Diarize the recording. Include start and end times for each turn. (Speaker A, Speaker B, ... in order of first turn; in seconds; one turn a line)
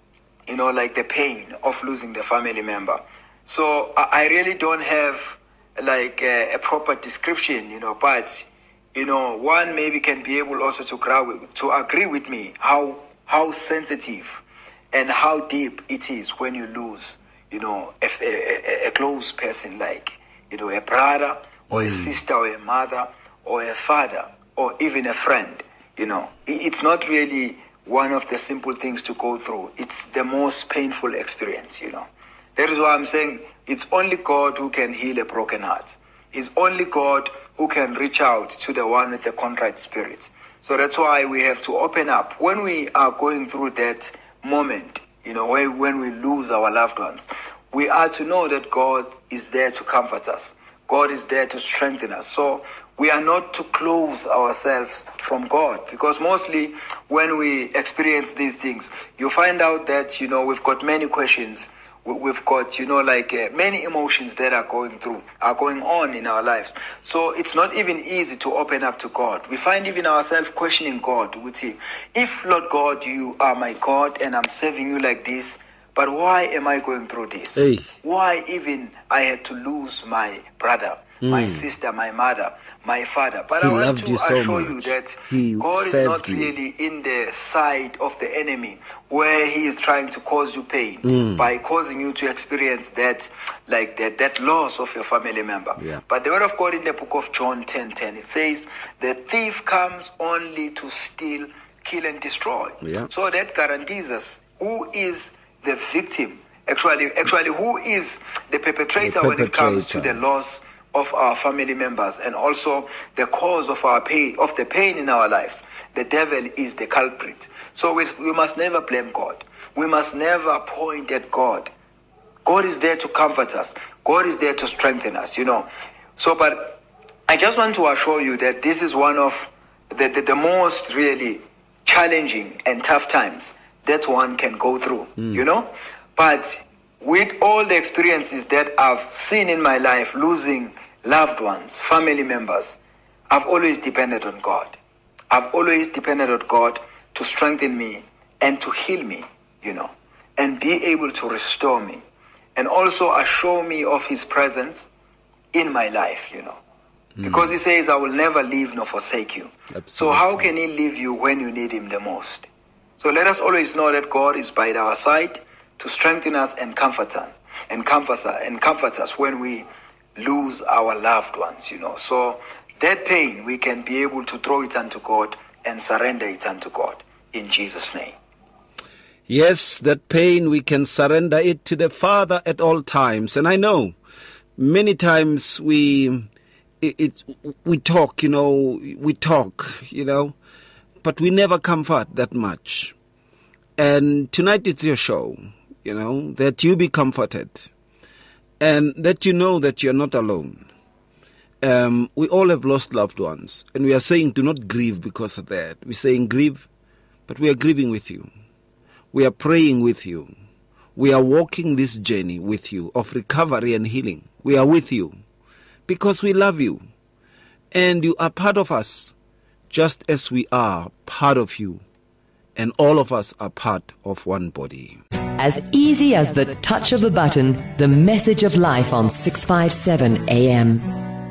Speaker A: 0.5-121.7
Speaker B: 21.7-22.1
Speaker B: 77.5-77.9
Speaker B: 81.2-81.6
Speaker B: 83.6-86.5
Speaker B: 91.0-91.5
Speaker B: 102.8-103.1
Speaker B: 109.0-110.2
Speaker A: 122.4-142.8
Speaker A: 143.3-144.8
Speaker A: 145.3-152.0
Speaker A: 152.6-154.9
Speaker A: 155.5-156.6
Speaker B: 157.2-157.5
Speaker A: 157.2-162.5
Speaker B: 159.8-160.5
Speaker A: 163.0-178.1
Speaker B: 179.3-183.9
Speaker B: 184.6-186.3
Speaker B: 186.8-190.3
Speaker B: 191.0-192.9
Speaker B: 193.8-197.7
Speaker B: 198.6-200.7
Speaker B: 201.6-206.7
Speaker B: 207.3-208.3
Speaker B: 209.1-210.3
Speaker B: 210.9-215.2
Speaker B: 215.9-216.8
Speaker B: 217.7-219.1
Speaker B: 219.7-221.8
Speaker B: 222.6-225.0
Speaker C: 225.3-231.0